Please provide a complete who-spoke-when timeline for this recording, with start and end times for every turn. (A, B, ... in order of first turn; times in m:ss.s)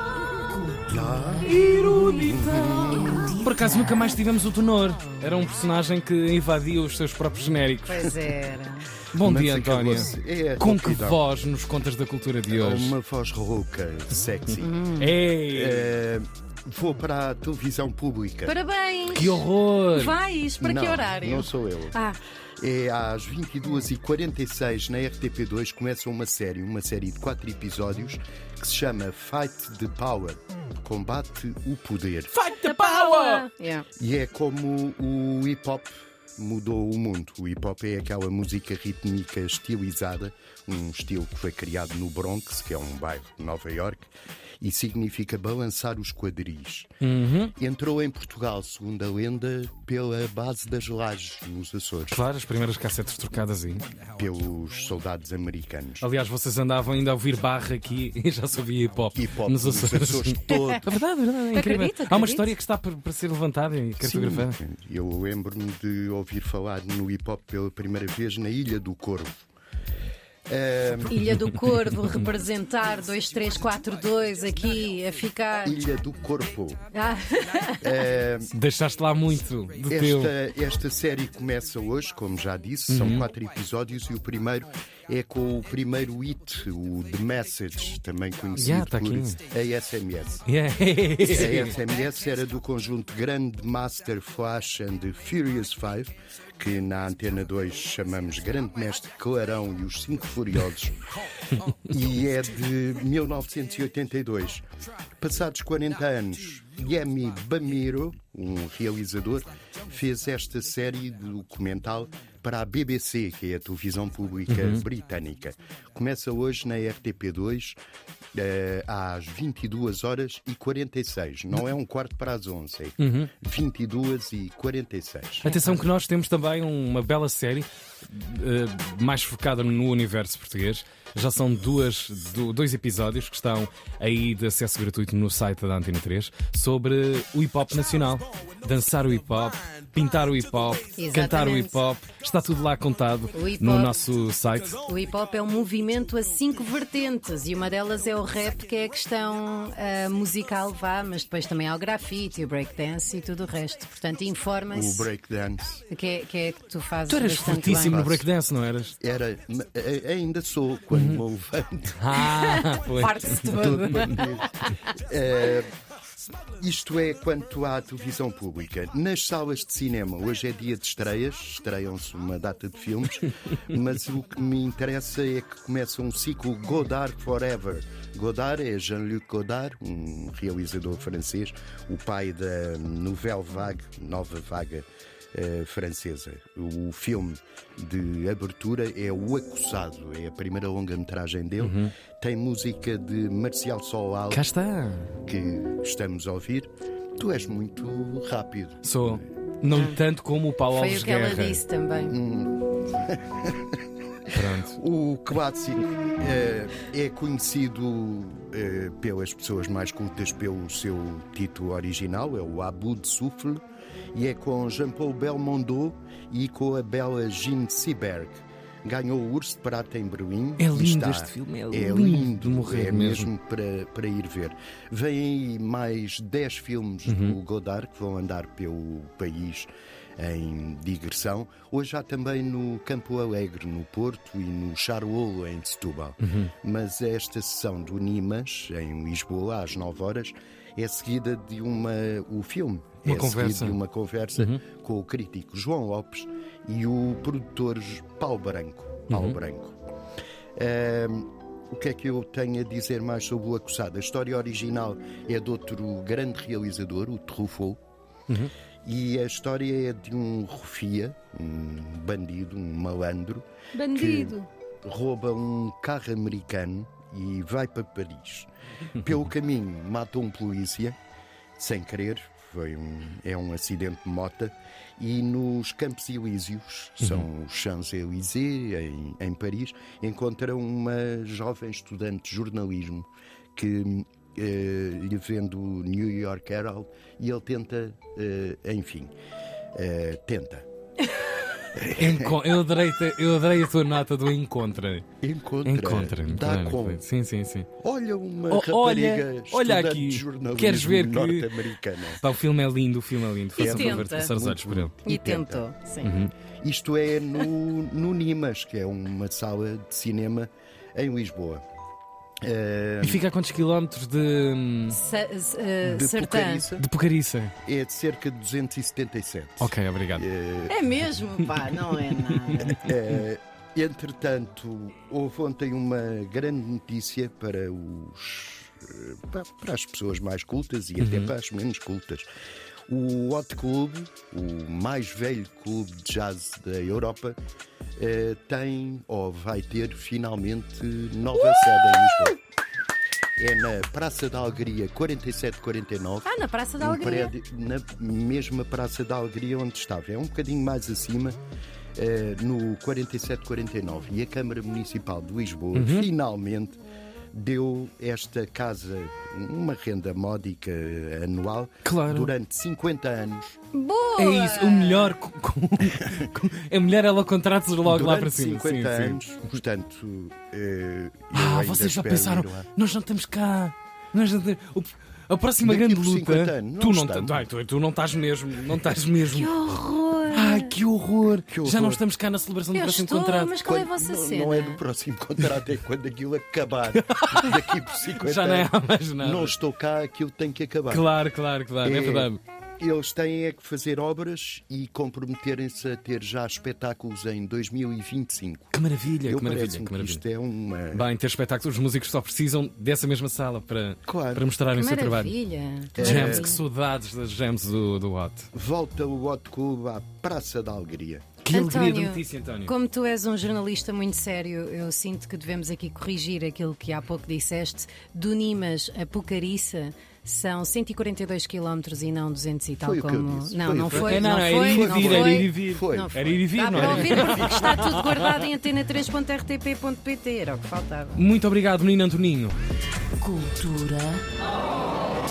0:00.3-0:04.2 A
0:00.9-0:01.6 B
0:01.4-0:08.1 C
0:02.1-0:03.4 B
0:07.9-0:08.9 D
0:09.1-0:13.0 C
0:09.2-0:11.2 B
0:12.5-0:18.6 B
0:14.6-0:15.2 D
0:15.0-0:16.0 C
0:18.5-0:22.2 D
0:19.1-0:20.2 C
0:20.6-0:22.0 B
0:22.6-0:32.5 B
0:32.3-0:33.5 C
0:32.6-0:33.9 D
0:34.0-0:44.1 B
0:44.6-0:46.9 B
0:47.0-0:47.5 C
0:47.6-0:52.2 B
0:52.1-0:53.8 C
0:54.2-0:56.1 B
0:56.0-1:04.6 C
0:59.1-1:00.9 B
1:00.5-1:00.8 D
1:01.5-1:02.5 D
1:04.0-1:09.5 B
1:10.5-1:11.4 B
1:11.1-1:15.8 D
1:15.6-1:16.8 B
1:16.9-1:18.1 D
1:17.8-1:18.5 B
1:18.5-1:20.3 C
1:19.9-1:30.4 B
1:22.9-1:23.3 C
1:28.6-1:29.4 C
1:30.5-1:31.8 C
1:31.2-1:41.0 B
1:41.9-1:44.7 B
1:45.2-1:57.8 B
1:54.5-1:54.8 C
1:58.3-2:05.5 B
2:03.0-2:03.3 C
2:05.4-2:24.8 C
2:21.0-2:21.8 D
2:23.3-2:24.0 D
2:24.8-2:35.1 D
2:34.7-2:35.8 B
2:35.9-2:38.1 D
2:37.1-2:39.0 C
2:37.5-2:38.3 B
2:39.0-2:42.3 B
2:40.9-2:41.2 C
2:42.0-2:44.2 C
2:42.2-2:44.3 D
2:43.4-2:45.7 B
2:46.6-3:14.5 B
3:11.6-3:12.0 C
3:14.3-3:15.1 C
3:15.2-3:19.2 B
3:18.8-3:21.6 C
3:19.7-3:20.0 D
3:20.7-3:22.2 D
3:22.1-3:23.8 B
3:24.3-3:24.8 C
3:24.7-3:33.6 B
3:34.1-4:09.8 B
3:40.6-3:43.3 C
3:47.1-3:47.4 C
3:56.2-3:56.5 C
4:03.0-4:03.8 C
4:09.1-4:09.4 C
4:10.6-4:17.8 B
4:18.8-4:31.0 B
4:23.8-4:24.4 D
4:31.6-4:49.1 B
4:49.7-4:50.7 B
4:51.7-4:52.4 B
4:52.0-4:55.1 C
4:55.2-4:57.0 B
4:55.6-4:57.7 C
4:57.8-5:02.2 B
4:58.5-5:01.6 C
5:02.2-5:05.0 C
5:03.6-5:04.3 D
5:03.6-5:05.6 B
5:05.0-5:06.1 D
5:06.0-5:06.3 C
5:06.6-5:11.6 B
5:12.4-5:13.2 B
5:13.0-5:15.0 C
5:14.9-5:16.7 D
5:15.8-5:16.9 B
5:16.8-5:17.5 C
5:17.6-5:21.1 B
5:19.6-5:20.3 C
5:20.7-5:22.9 D
5:21.8-5:22.9 C
5:22.7-5:32.3 B
5:31.0-5:31.3 C
5:32.9-5:37.4 B
5:38.0-5:42.4 B
5:41.6-5:42.3 D
5:43.4-5:51.4 B
5:46.2-5:47.3 D
5:52.0-5:56.8 B
5:55.7-5:56.1 C
5:57.3-6:03.6 B
6:01.8-6:02.3 C
6:03.7-6:05.2 D
6:04.2-6:09.2 C
6:05.9-6:06.3 B
6:07.8-6:12.7 B
6:11.3-6:19.7 C
6:15.6-6:17.4 B
6:19.3-6:20.8 D
6:20.3-6:23.6 C
6:21.5-6:22.0 B
6:22.7-6:24.8 D
6:23.6-6:31.1 B
6:26.9-6:29.6 C
6:30.9-6:32.4 C
6:31.8-6:41.1 B
6:38.7-6:40.2 C
6:40.9-6:45.4 C
6:44.1-6:44.5 B
6:44.7-6:46.6 D
6:46.0-6:46.6 B
6:46.0-6:48.5 C
6:48.5-6:51.4 B
6:51.4-6:52.7 C
6:51.5-7:11.2 D
7:02.8-7:07.8 B
7:03.9-7:08.4 C
7:11.2-7:12.6 C
7:13.2-7:14.3 A